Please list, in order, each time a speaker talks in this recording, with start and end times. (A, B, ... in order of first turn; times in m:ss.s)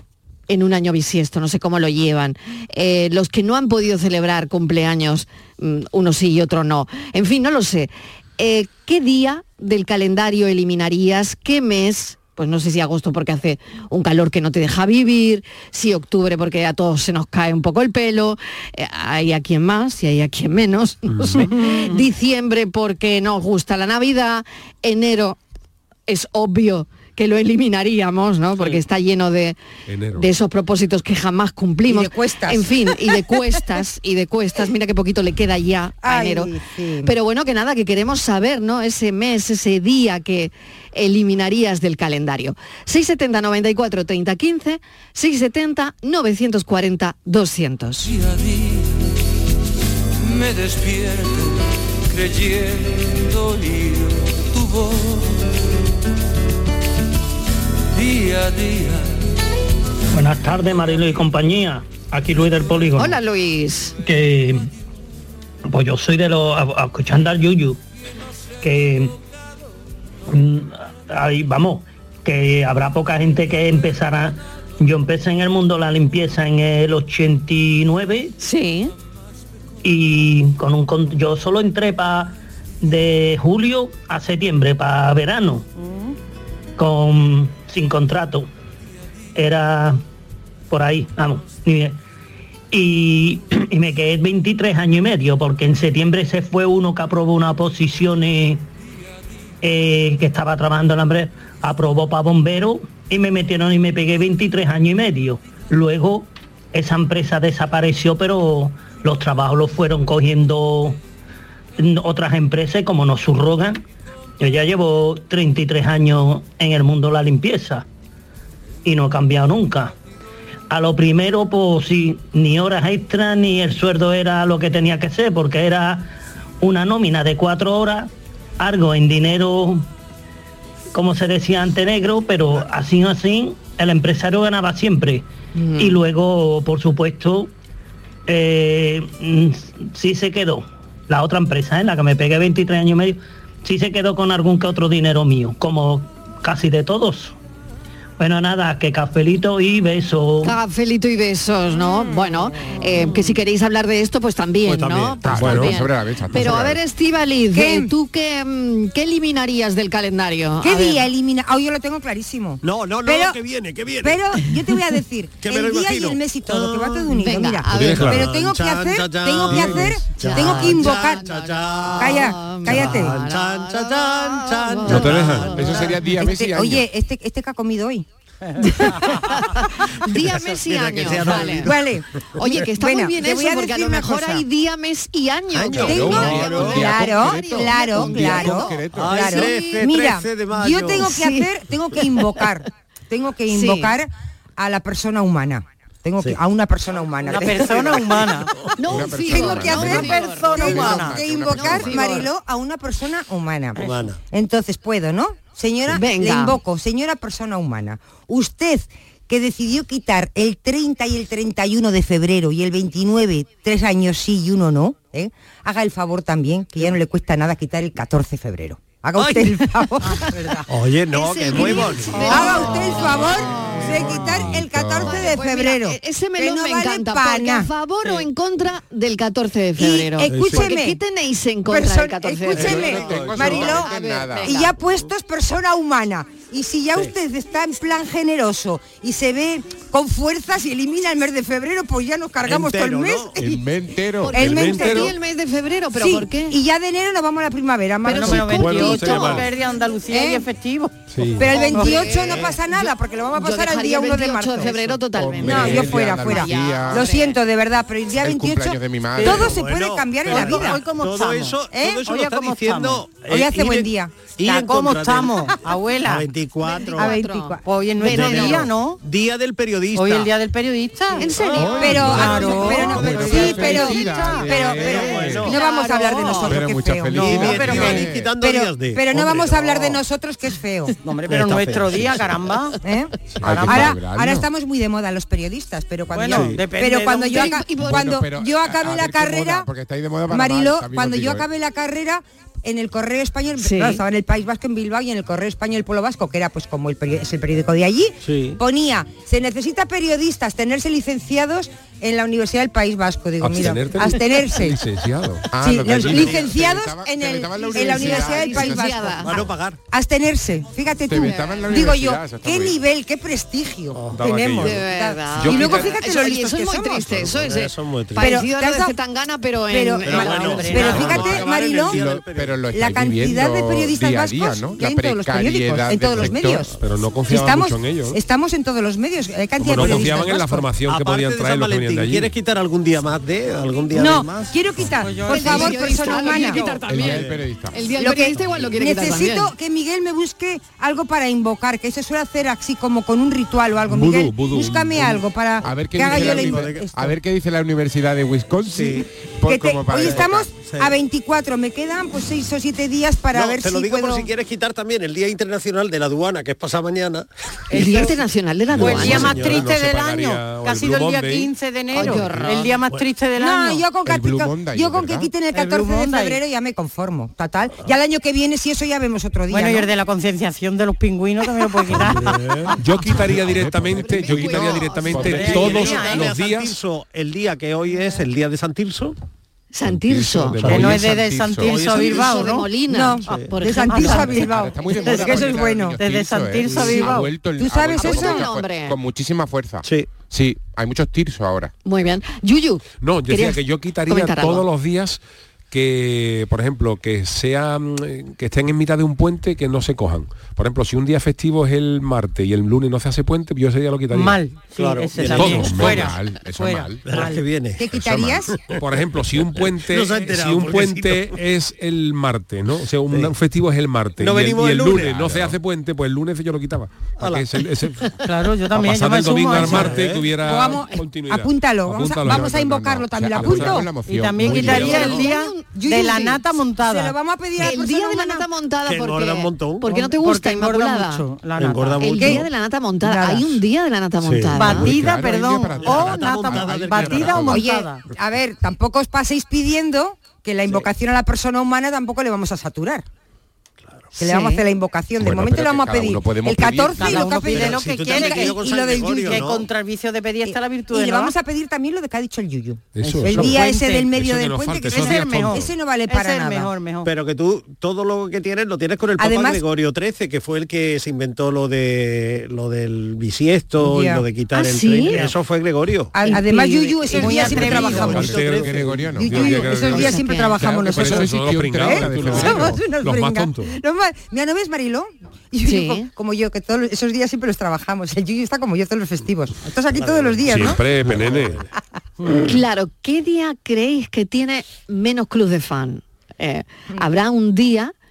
0:00.5-0:25.4 A
0:21.1-0:21.4 B
0:26.1-0:29.6 A
0:29.9-0:30.3 B
0:30.1-0:36.5 A
0:31.9-0:32.7 C
0:36.0-0:37.1 C
0:37.0-0:48.1 A
0:48.0-0:49.1 D
0:50.2-0:55.5 D
0:57.9-0:59.3 D
1:00.1-1:03.2 E
1:03.0-1:04.0 A
1:04.0-1:04.7 E
1:05.7-1:07.8 E
1:08.6-1:09.1 E
1:10.3-1:18.3 E
1:18.4-1:18.9 A
1:19.8-1:25.6 E
1:25.8-1:26.2 F
1:26.8-1:28.5 E
1:29.4-1:30.0 E
1:30.7-1:32.0 E
1:32.7-1:38.6 E
1:39.6-1:51.0 E
1:51.8-1:53.8 E
1:54.4-1:57.8 E
1:58.8-1:59.9 E
2:00.7-2:06.1 E
2:06.6-2:09.8 E
2:10.9-2:15.2 E
2:15.6-2:16.0 A
2:15.8-2:17.5 E
2:18.3-2:27.4 E
2:28.2-2:30.6 E
2:30.4-2:41.0 A
2:34.6-2:35.8 G
2:35.2-2:36.8 H
2:37.5-2:37.9 C
2:40.6-2:43.4 C
2:42.6-2:44.3 G
2:44.0-2:51.2 C
2:45.4-2:47.1 G
2:47.1-2:48.2 A
2:47.7-2:48.2 B
2:47.8-2:56.0 G
2:49.5-2:49.8 B
2:50.2-2:55.9 A
2:52.0-2:53.2 C
2:54.8-2:55.5 B
2:55.5-2:56.8 H
2:55.6-2:58.0 C
2:58.6-3:01.7 A
3:00.1-3:01.9 G
3:01.5-3:04.4 C
3:02.4-3:09.8 A
3:05.5-3:07.1 G
3:05.7-3:09.3 H
3:05.8-3:18.4 C
3:08.9-3:11.2 G
3:11.0-3:11.5 A
3:13.5-3:14.0 A
3:17.2-3:18.5 F
3:17.7-3:18.7 G
3:18.8-3:22.3 A
3:18.8-3:22.3 H
3:19.3-3:40.6 C
3:19.4-3:21.2 F
3:23.8-3:24.2 G
3:25.9-3:26.6 A
3:39.2-3:39.6 G
3:40.2-3:40.6 F
3:40.7-3:43.1 G
3:41.1-3:44.3 A
3:41.4-3:47.7 C
3:41.6-3:42.4 F
3:42.9-3:45.3 H
3:45.0-3:54.8 A
3:49.8-3:51.0 C
3:50.3-3:50.7 G
3:51.7-4:03.4 C
3:52.5-3:53.7 G
3:52.6-3:54.6 H
4:02.4-4:03.5 G
4:03.4-4:04.4 H
4:04.2-4:06.6 A
4:04.3-4:05.1 C
4:04.4-4:05.1 B
4:05.9-4:09.4 C
4:08.0-4:12.5 F
4:08.0-4:09.4 A
4:08.4-4:09.5 B
4:10.1-4:10.4 C
4:11.1-4:11.5 B
4:11.4-4:20.8 C
4:11.5-4:17.4 A
4:15.2-4:17.1 H
4:15.4-4:16.0 B
4:18.1-4:19.6 H
4:19.2-4:19.5 F
4:19.2-4:27.1 G
4:20.2-4:23.1 F
4:21.7-4:22.0 C
4:23.2-4:24.4 C
4:24.4-4:26.3 F
4:26.6-4:28.7 A
4:26.9-4:27.6 C
4:27.6-4:29.0 F
4:28.0-4:30.3 G
4:28.2-4:28.6 C
4:29.9-4:34.8 F
4:31.2-4:32.8 A
4:31.5-4:32.3 G
4:31.6-4:35.5 H
4:31.8-4:41.0 C
4:34.8-4:35.5 G
4:35.4-4:36.6 A
4:35.6-4:36.5 F
4:36.5-4:38.3 H
4:37.1-4:38.1 F
4:37.2-4:40.0 G
4:41.0-4:42.8 F
4:41.2-4:42.4 G
4:42.8-4:43.1 C
4:43.3-4:43.9 G
4:43.4-4:44.5 H
4:43.6-4:49.7 C
4:46.1-4:47.5 F
4:46.3-4:46.6 G
4:47.3-4:48.0 A
4:47.7-4:51.5 H
4:50.3-5:04.8 C
4:53.6-4:54.0 A
4:58.2-4:58.6 G
5:03.4-5:05.5 B
5:05.5-5:09.1 H
5:05.6-5:17.3 C
5:07.7-5:09.3 A
5:09.2-5:09.8 G
5:11.1-5:12.8 H
5:11.2-5:11.6 A
5:14.0-5:16.0 B
5:14.6-5:21.0 A
5:17.2-5:18.5 G
5:18.2-5:19.0 C
5:19.7-5:22.0 C
5:20.0-5:22.6 G
5:20.2-5:21.4 F
5:21.9-5:26.7 H
5:22.7-5:26.7 C
5:26.8-5:28.2 B
5:27.3-5:30.7 C
5:29.6-5:32.3 B
5:29.8-5:30.1 G
5:30.8-5:34.6 G
5:33.9-5:36.6 C
5:34.9-5:36.8 F
5:35.3-5:39.5 A
5:36.8-5:38.0 H
5:37.0-5:37.5 G
5:38.0-5:47.1 C
5:38.3-5:38.6 B
5:43.9-5:45.2 B
5:45.6-5:50.5 H
5:46.0-5:46.9 G
5:48.6-5:49.1 G
5:49.4-5:54.3 C
5:49.9-5:51.0 G
5:53.3-5:57.3 G
5:57.7-5:58.2 F
5:57.7-5:59.5 A
5:58.7-5:59.8 G
5:58.8-6:03.9 F
5:59.0-6:01.5 B
6:01.9-6:02.8 A
6:02.6-6:03.1 G
6:03.4-6:09.9 C
6:04.0-6:05.3 H
6:05.5-6:06.4 F
6:09.5-6:12.4 F
6:11.8-6:13.6 G
6:12.8-6:16.8 B
6:13.6-6:14.5 H
6:13.7-6:15.6 A
6:14.3-6:19.2 G
6:15.1-6:15.4 H
6:15.2-6:16.3 F
6:19.7-6:20.9 A
6:19.8-6:21.4 B
6:20.6-6:21.0 G
6:20.6-6:22.7 F
6:21.0-6:21.9 H
6:21.6-6:22.6 G
6:21.8-6:25.3 A
6:22.9-6:26.0 C
6:23.2-6:23.6 G
6:23.7-6:27.3 F
6:24.4-6:31.7 H
6:26.6-6:27.1 G
6:27.6-6:28.5 C
6:28.0-6:29.0 A
6:29.8-6:30.1 G
6:31.8-6:34.7 A
6:33.0-6:44.4 B
6:44.1-6:47.4 F
6:44.7-6:45.9 G
6:45.3-6:46.0 B
6:45.4-6:47.1 H
6:47.1-6:51.4 G
6:47.8-6:48.5 C
6:48.8-6:58.0 B
6:53.1-6:53.4 G
6:54.2-6:55.4 G
6:55.0-6:55.6 H
6:57.2-6:57.9 G
6:58.2-7:00.0 F
6:58.7-7:02.5 B
6:59.5-7:00.4 G
7:00.4-7:03.9 C
7:02.2-7:05.2 H
7:03.4-7:03.8 B
7:04.0-7:07.2 F
7:04.5-7:05.6 A
7:04.8-7:08.4 C
7:07.6-7:11.2 A
7:08.8-7:09.9 G
7:09.8-7:12.4 F
7:11.6-7:12.4 G
7:12.0-7:15.0 A
7:13.0-7:13.6 C
7:14.2-7:15.2 G
7:14.5-7:18.0 F
7:14.8-7:17.6 H
7:15.8-7:17.6 G
7:17.5-7:23.0 C
7:24.2-7:24.6 A
7:24.2-7:29.5 C
7:25.2-7:27.3 H
7:26.8-7:28.6 F
7:27.1-7:29.7 G
7:29.2-7:31.3 F
7:30.4-7:36.7 C
7:32.9-7:35.6 B
7:33.0-7:33.6 G
7:33.3-7:34.1 F
7:34.9-7:37.1 F
7:37.0-7:46.1 G
7:39.2-7:39.6 C
7:43.8-7:44.2 C
7:44.5-7:45.2 A
7:46.1-7:48.5 C
7:46.3-7:46.5 A
7:46.3-7:48.3 F
7:47.2-7:49.2 G
7:48.0-7:50.1 B
7:48.6-7:52.8 H
7:49.1-8:00.8 C
7:49.8-7:50.6 A
7:50.8-7:53.8 B
7:55.6-7:56.1 A
7:59.9-8:01.7 G
8:00.4-8:01.6 B
8:02.2-8:02.5 G
8:02.4-8:07.9 A